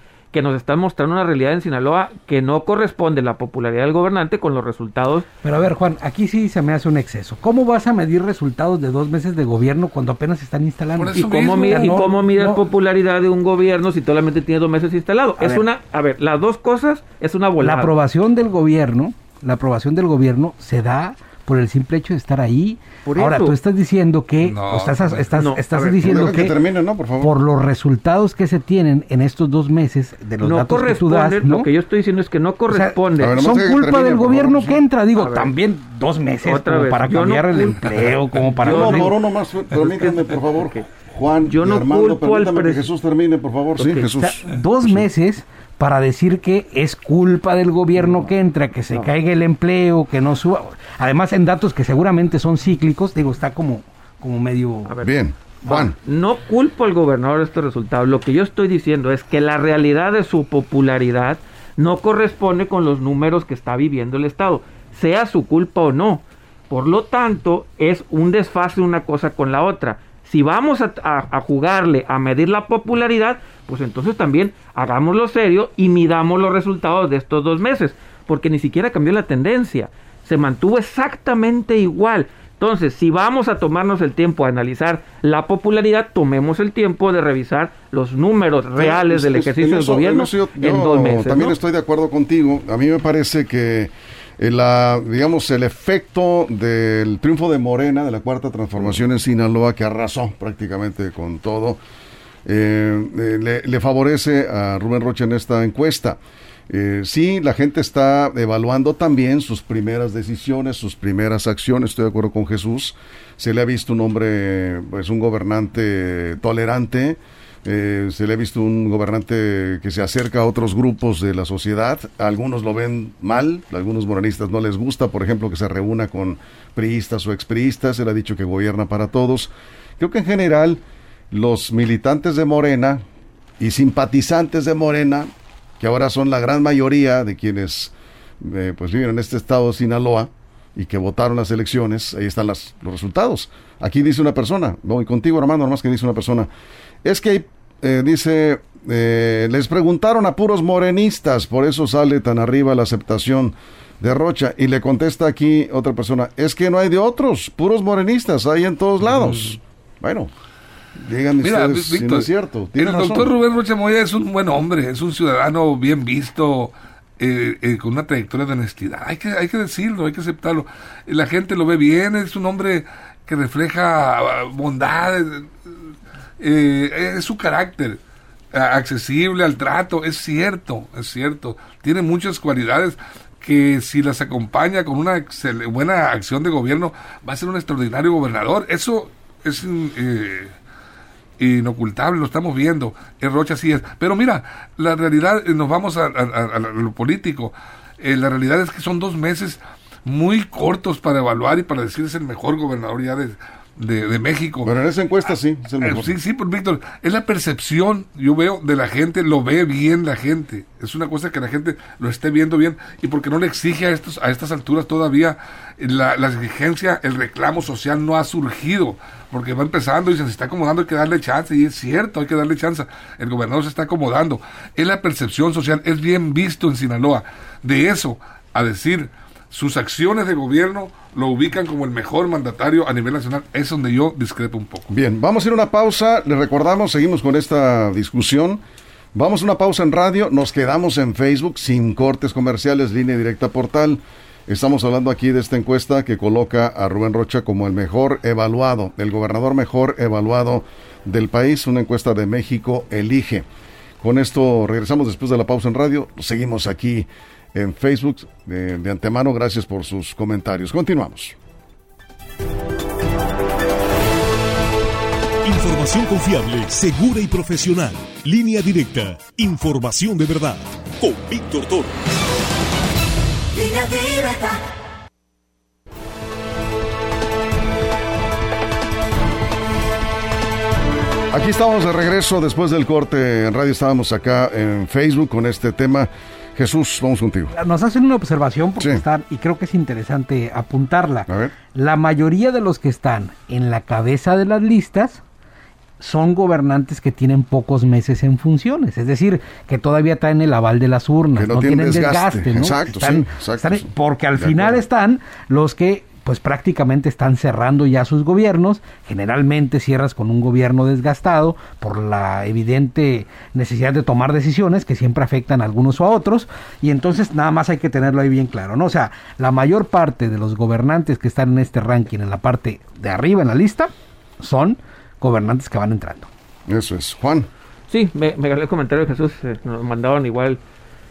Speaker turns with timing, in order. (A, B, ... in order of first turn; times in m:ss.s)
0:00.3-0:05.3 A
0:05.4-0:12.6 B
0:11.0-0:12.1 C
0:11.1-0:17.9 A
0:15.4-0:15.6 B
0:17.6-0:26.6 B
0:23.0-0:23.6 A
0:24.4-0:25.3 C
0:25.4-0:26.2 A
0:26.0-0:27.3 D
0:27.2-0:31.7 B
0:30.4-0:33.4 A
0:32.7-0:39.2 B
0:33.2-0:34.8 D
0:35.2-0:35.5 A
0:36.4-0:39.2 A
0:38.6-0:45.1 D
0:39.7-0:40.9 A
0:41.5-0:42.9 A
0:43.8-0:44.1 A
0:44.1-0:54.9 B
0:54.9-1:31.6 A
0:55.0-0:56.0 D
1:28.8-1:41.8 D
1:42.5-2:13.0 D
2:13.6-2:26.5 D
2:27.0-2:40.3 D
2:39.2-2:39.5 C
2:41.0-2:43.3 D
2:41.4-2:55.5 C
2:56.4-2:58.0 C
2:58.5-3:10.5 C
3:11.4-3:24.7 C
3:24.6-3:26.1 D
3:25.8-3:54.9 C
3:54.9-3:58.6 D
3:59.1-4:13.5 D
4:14.0-4:21.4 D
4:25.4-4:32.0 E
4:33.6-4:34.6 E
4:41.3-4:47.5 D
4:47.5-4:55.2 B
4:51.3-4:51.5 D
4:56.0-5:26.3 B
5:01.4-5:04.8 D
5:26.7-5:27.5 D
5:27.9-5:30.6 A